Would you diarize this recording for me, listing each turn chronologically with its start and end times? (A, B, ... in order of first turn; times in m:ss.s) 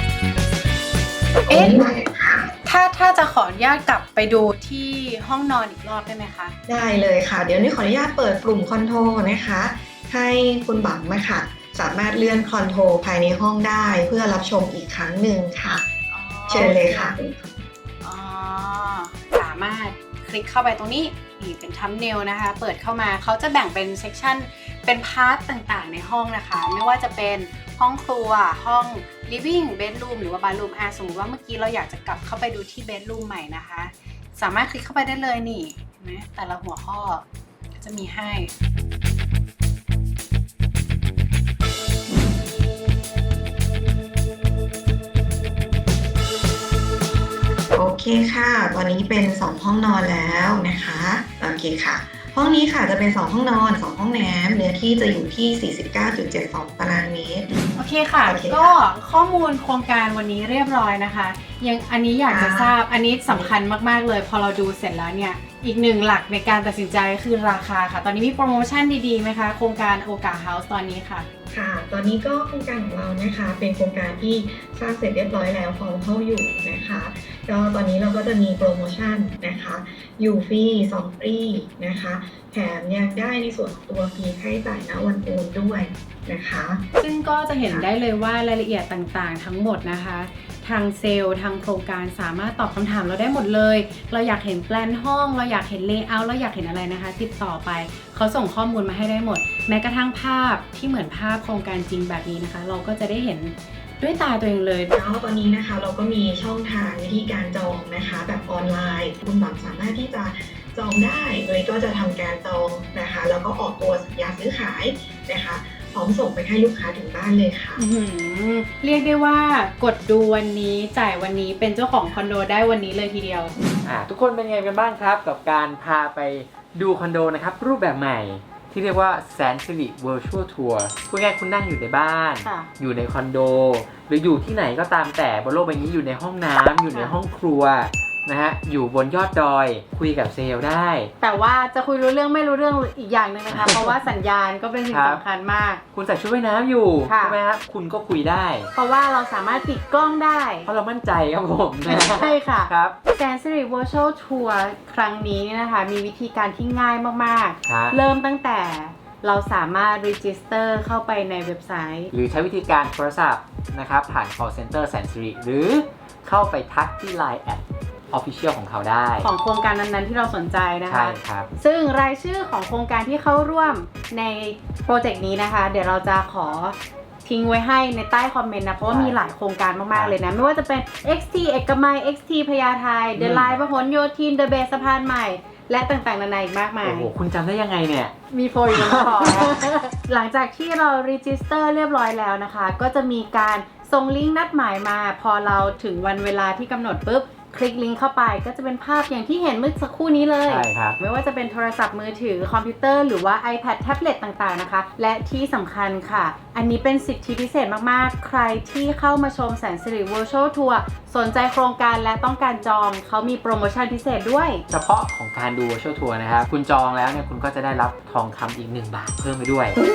0:01.4-0:02.5 A
0:01.5-0:01.8 B
0:02.6-0:06.6 B
0:06.7-0:15.8 A
0:16.1-0:17.2 B
0:16.5-0:17.6 A
0:18.0-0:37.2 B
0:37.8-0:38.5 B
0:47.7-0:57.6 A
0:57.7-1:11.3 B
0:58.2-0:58.8 A
1:02.3-1:02.7 A
1:03.3-1:03.5 A
1:11.5-1:26.8 A
1:27.0-1:45.0 B
1:44.9-1:57.8 A
1:57.8-2:03.6 B
2:03.8-2:21.1 C
2:16.9-2:17.2 B
2:21.2-2:25.8 B
2:23.5-2:24.0 C
2:24.9-2:25.2 C
2:25.9-2:28.7 C
2:27.0-2:27.4 B
2:28.7-2:30.7 B
2:30.7-2:32.9 C
2:31.8-2:42.1 B
2:37.6-2:38.0 C
2:42.1-2:49.3 C
2:49.2-3:07.1 B
2:50.9-2:51.5 C
2:58.9-2:59.2 C
3:03.2-3:03.5 C
3:06.8-3:08.1 C
3:08.3-3:34.6 B
3:08.7-3:09.6 C
3:20.4-3:21.0 C
3:34.7-3:39.8 C